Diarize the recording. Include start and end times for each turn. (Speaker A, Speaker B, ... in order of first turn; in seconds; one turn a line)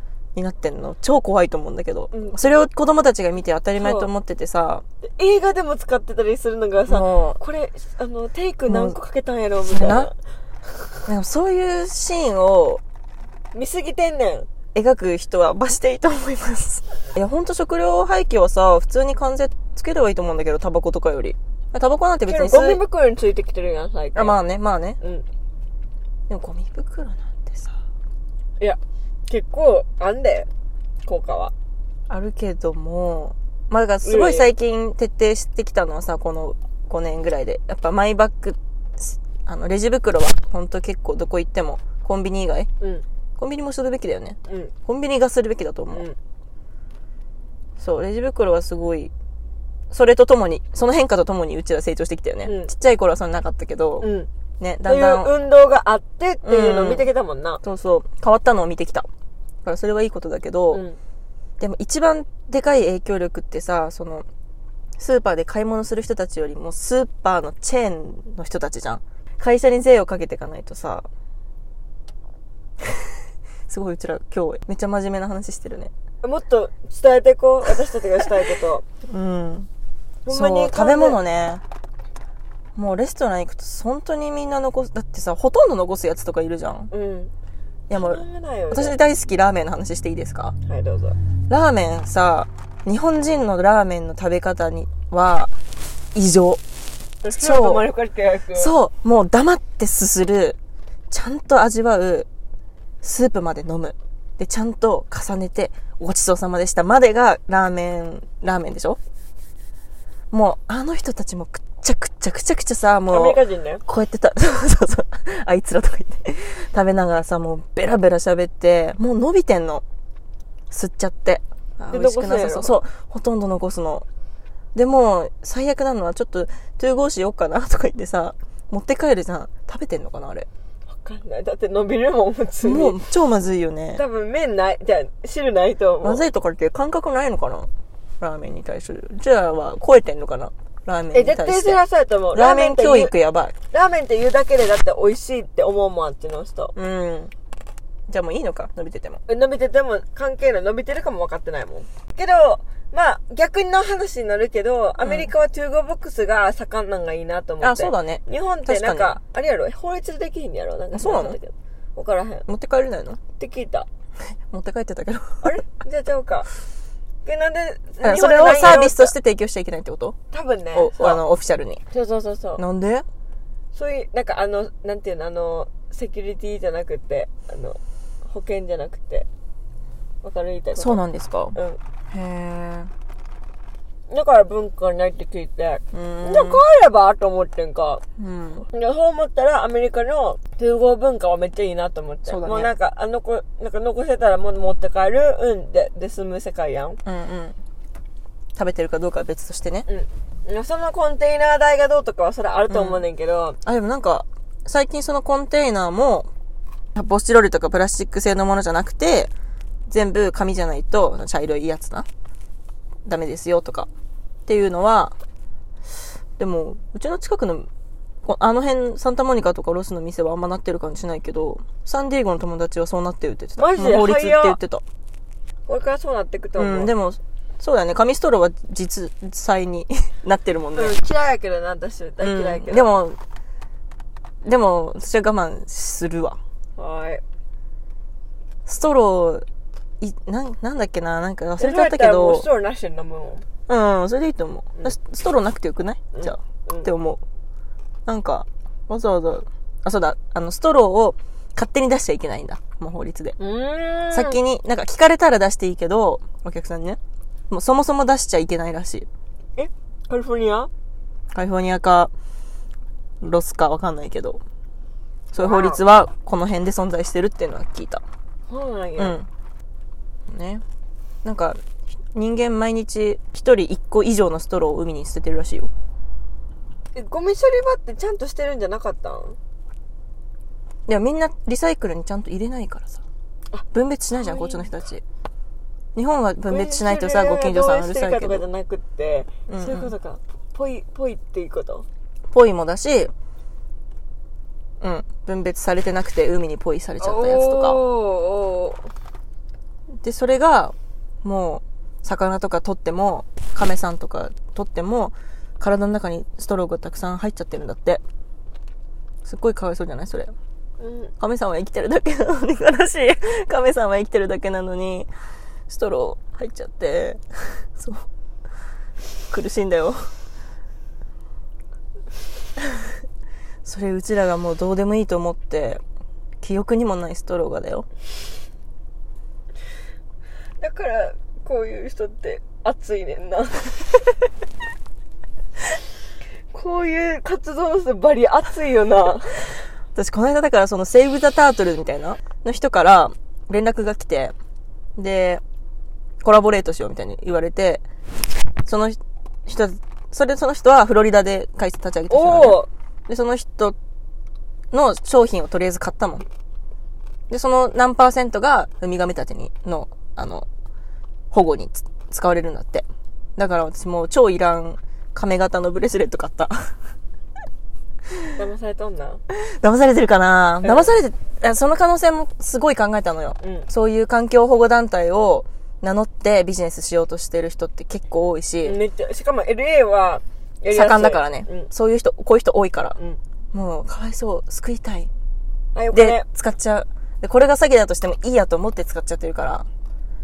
Speaker A: 0.3-4.8
Speaker B: 2.1-2.6
Speaker B: 3.8-4.1
Speaker B: 5.1-10.2
Speaker A: 6.9-7.4
Speaker A: 8.7-9.0
Speaker A: 9.7-10.1
Speaker A: 11.1-12.8
Speaker B: 13.5-14.5
Speaker A: 14.8-22.8
Speaker B: 22.3-24.4
Speaker A: 24.1-25.0
Speaker B: 25.0-25.2
Speaker A: 26.3-27.8
Speaker B: 28.6-30.5
Speaker B: 31.0-31.5
Speaker A: 32.1-42.7
Speaker B: 34.0-34.5
Speaker A: 43.4-46.1
Speaker B: 44.5-44.7
Speaker A: 47.8-49.1
Speaker A: 49.9-55.3
Speaker B: 52.4-52.7
Speaker B: 54.0-54.3
Speaker B: 54.9-57.6
Speaker A: 56.4-57.0
Speaker A: 57.6-59.1
Speaker A: 59.6-60.8
Speaker B: 60.7-61.0
Speaker A: 61.6-64.2
Speaker A: 65.0-71.1
Speaker A: 73.7-75.9
Speaker B: 76.2-78.8
Speaker A: 79.1-79.7
Speaker B: 80.2-81.2
Speaker A: 80.3-81.6
Speaker A: 82.8-86.9
Speaker B: 86.9-87.3
Speaker A: 87.9-90.5
Speaker B: 87.9-89.0
Speaker B: 90.6-91.2
Speaker A: 91.5-95.5
Speaker A: 96.1-96.6
Speaker B: 97.2-98.7
Speaker A: 97.3-97.8
Speaker A: 98.5-100.6
Speaker A: 101.1-102.3
Speaker A: 103.0-109.0
Speaker A: 110.3-119.8
Speaker B: 113.1-113.8
Speaker A: 120.7-124.0
Speaker B: 121.9-122.7
Speaker A: 124.8-130.5
Speaker B: 130.9-133.0
Speaker A: 132.6-134.0
Speaker B: 133.9-136.2
Speaker A: 136.0-137.7
Speaker A: 138.2-141.8
Speaker B: 141.1-143.1
Speaker A: 142.3-143.5
Speaker B: 143.7-146.7
Speaker A: 146.8-147.3
Speaker A: 148.1-149.2
Speaker B: 149.3-162.5
Speaker A: 155.0-155.3
Speaker A: 157.6-159.2
Speaker A: 160.9-161.4
Speaker A: 162.5-163.2
Speaker B: 163.3-163.9
Speaker A: 164.2-165.6
Speaker B: 165.4-166.5
Speaker B: 167.2-169.1
Speaker A: 168.0-170.2
Speaker B: 170.3-171.2
Speaker A: 170.7-171.8
Speaker B: 171.9-172.6
Speaker A: 172.6-173.1
Speaker B: 173.7-179.3
Speaker B: 180.2-181.0
Speaker A: 180.8-181.6
Speaker B: 181.6-181.8
Speaker A: 182.1-182.9
Speaker B: 184.1-188.0
Speaker A: 185.9-186.6
Speaker A: 188.2-188.7
Speaker B: 188.7-197.0
Speaker A: 192.2-192.7
Speaker A: 197.1-197.6
Speaker A: 198.6-199.9
Speaker B: 199.9-203.6
Speaker A: 202.7-203.0
Speaker A: 203.6-206.3
Speaker A: 206.9-209.3
Speaker A: 209.9-212.1
Speaker A: 213.1-213.9
Speaker A: 214.5-215.1
Speaker A: 216.4-217.7
Speaker A: 218.2-224.8
Speaker B: 223.6-224.6
Speaker B: 225.7-226.9
Speaker A: 226.6-230.9
Speaker B: 230.8-232.9
Speaker A: 232.2-233.2
Speaker A: 234.4-236.4
Speaker B: 236.8-237.2
Speaker A: 238.7-239.4
Speaker A: 240.0-242.5
Speaker B: 241.6-243.4
Speaker A: 243.7-247.2
Speaker B: 246.1-246.9
Speaker A: 248.1-253.4
Speaker B: 253.4-254.4
Speaker A: 254.1-259.1
Speaker B: 259.6-260.7
Speaker A: 261.3-262.1
Speaker A: 263.2-264.4
Speaker A: 265.3-268.0
Speaker B: 265.4-265.8
Speaker B: 268.5-269.2
Speaker A: 269.0-269.3
Speaker A: 270.3-270.6
Speaker A: 271.2-271.6
Speaker A: 272.1-275.7
Speaker B: 276.9-279.4
Speaker A: 280.9-283.0
Speaker B: 283.5-284.7
Speaker A: 283.7-285.0
Speaker A: 285.9-288.4
Speaker B: 286.5-291.9
Speaker A: 289.5-289.9
Speaker A: 292.3-293.1
Speaker A: 294.8-297.8
Speaker B: 297.0-298.9
Speaker A: 300.0-308.0
Speaker A: 309.2-310.3
Speaker B: 310.8-311.1
Speaker A: 311.2-315.1
Speaker A: 315.7-318.1
Speaker A: 319.3-320.0
Speaker A: 323.6-325.8
Speaker A: 326.4-327.9
Speaker B: 330.6-334.1
Speaker B: 336.5-339.6
Speaker A: 339.9-344.3
Speaker A: 345.0-345.4
Speaker A: 346.2-347.8
Speaker A: 348.7-353.8
Speaker B: 352.1-352.7
Speaker A: 354.7-356.2
Speaker A: 357.3-360.5
Speaker A: 361.3-366.7
Speaker B: 368.3-369.2
Speaker A: 369.3-378.8
Speaker B: 370.6-371.0
Speaker B: 373.4-373.7
Speaker B: 378.6-381.7
Speaker A: 380.7-383.0
Speaker A: 383.5-385.1
Speaker B: 385.7-386.2
Speaker A: 385.9-389.7